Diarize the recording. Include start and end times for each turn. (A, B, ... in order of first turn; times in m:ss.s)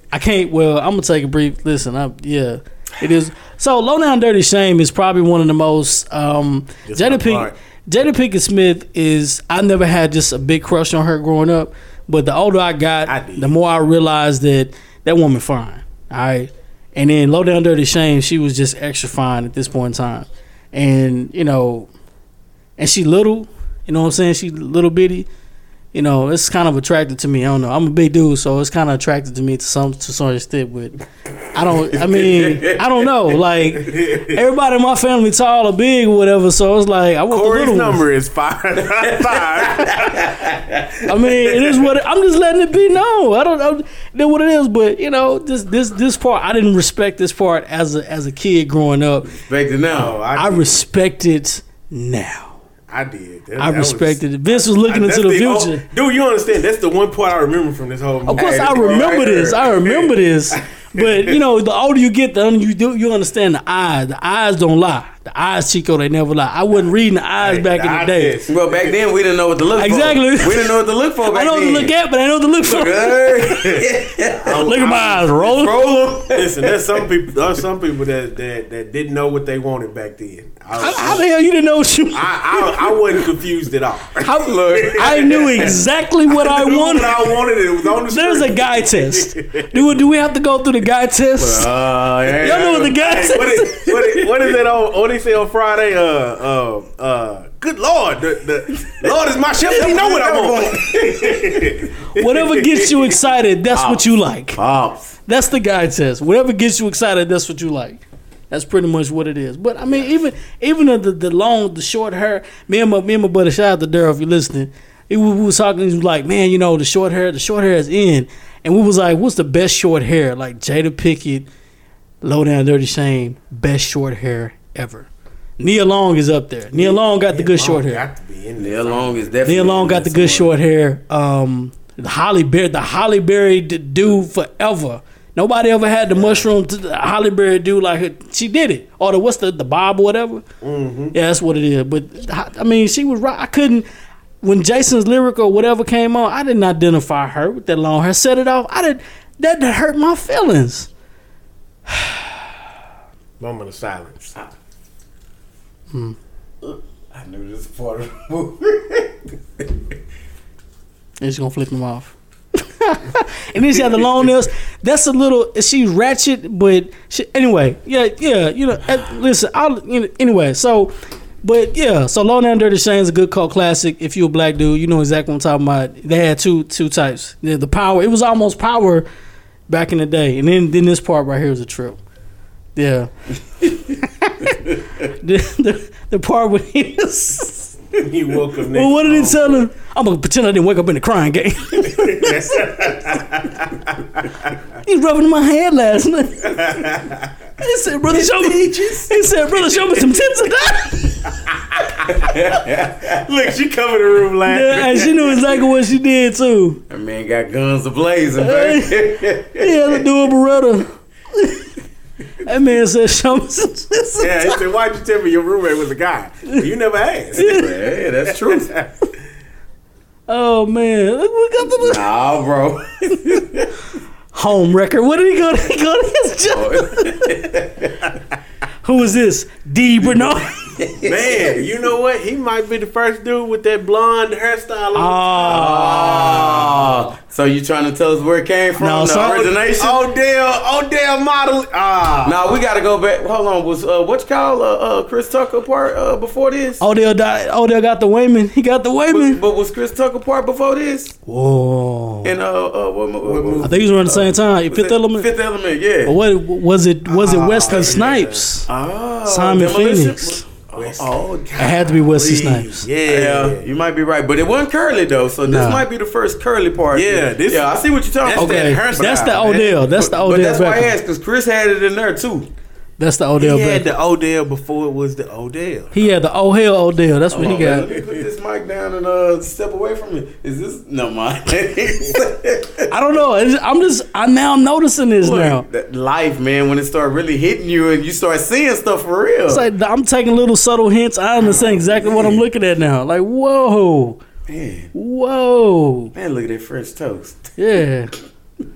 0:00.1-0:21.9 A
0:06.9-0:07.5 B
0:13.1-0:13.5 B
0:22.8-0:25.3 A
0:25.9-0:31.0 A
0:31.5-0:38.0 A
0:31.9-0:32.8 C
0:33.8-0:34.4 B
0:37.3-0:40.5 B
0:39.2-0:40.8 C
0:41.0-0:49.3 A
0:41.3-0:41.7 B
0:49.2-0:50.2 C
0:49.9-0:50.8 B
0:50.4-0:52.6 A
0:52.9-0:58.7 B
0:53.6-0:55.8 A
0:58.3-1:08.3 A
0:58.3-0:59.7 C
0:59.9-1:01.4 B
1:07.4-1:08.8 B
1:08.5-1:11.9 C
1:09.8-1:13.3 A
1:12.6-1:14.6 C
1:13.5-1:21.2 B
1:14.6-1:15.8 A
1:15.6-1:16.9 C
1:20.8-1:23.0 A
1:22.1-1:25.7 B
1:24.2-1:27.4 A
1:24.4-1:25.7 C
1:26.3-1:29.9 B
1:28.1-1:31.7 A
1:31.4-1:32.9 C
1:32.3-1:42.6 B
1:32.4-1:34.3 A
1:38.8-1:39.1 C
1:39.7-1:41.9 C
1:42.2-1:44.6 A
1:43.7-1:45.2 C
1:45.3-2:01.5 A
2:02.2-2:05.1 A
2:05.6-2:08.0 A
2:06.7-2:09.4 B
2:08.6-2:10.5 C
2:09.4-2:20.4 A
2:20.6-2:21.2 B
2:21.1-2:23.8 A
2:24.4-2:30.9 A
2:31.9-2:32.4 A
2:33.4-2:34.3 B
2:36.6-2:39.6 C
2:41.2-2:59.1 A
2:59.7-3:02.0 A
3:02.8-3:03.1 A
3:03.6-3:07.8 A
3:08.0-3:09.7 B
3:08.7-3:13.2 A
3:11.9-3:14.2 B
3:14.8-3:17.0 A
3:16.5-3:17.3 B
3:17.6-3:21.3 A
3:18.1-3:20.1 B
3:22.1-3:23.2 C
3:23.0-3:25.4 B
3:24.5-3:26.8 A
3:26.9-3:30.0 C
3:28.4-3:31.7 A
3:32.4-3:34.6 A
3:34.2-3:37.7 B
3:37.4-3:38.7 C
3:37.4-3:37.7 A
3:38.3-3:38.9 B
3:40.3-3:42.0 A
3:41.8-3:43.7 C
3:44.3-3:47.2 A
3:46.5-3:48.0 C
3:48.8-3:50.8 A
3:50.8-3:51.7 C
3:51.0-3:56.7 B
3:55.0-3:57.0 A
3:55.4-4:00.0 C
3:58.8-3:59.5 A
3:59.8-4:02.4 B
4:02.2-4:06.8 C
4:06.8-4:09.4 A
4:09.1-4:11.2 C
4:11.3-4:12.3 A
4:12.2-4:16.2 C
4:13.2-4:13.8 B
4:13.6-4:15.3 A
4:16.1-4:18.7 A
4:17.1-4:18.5 B
4:17.7-4:18.0 C
4:18.7-4:21.6 C
4:19.3-4:20.4 A
4:20.8-4:23.6 B
4:21.6-4:22.9 A
4:23.1-4:29.3 C
4:25.5-4:25.8 A
4:26.9-4:29.9 B
4:28.4-4:30.9 A
4:29.9-4:32.5 C
4:33.0-4:33.9 A
4:33.4-4:36.0 B
4:35.9-4:37.9 A
4:37.3-4:42.9 C
4:42.9-4:45.6 A
4:45.2-4:49.7 C
4:49.5-4:54.2 A
4:52.0-4:52.4 C
4:54.5-4:54.9 C
4:54.9-4:56.1 A
4:56.1-4:57.5 C
4:57.6-4:58.1 A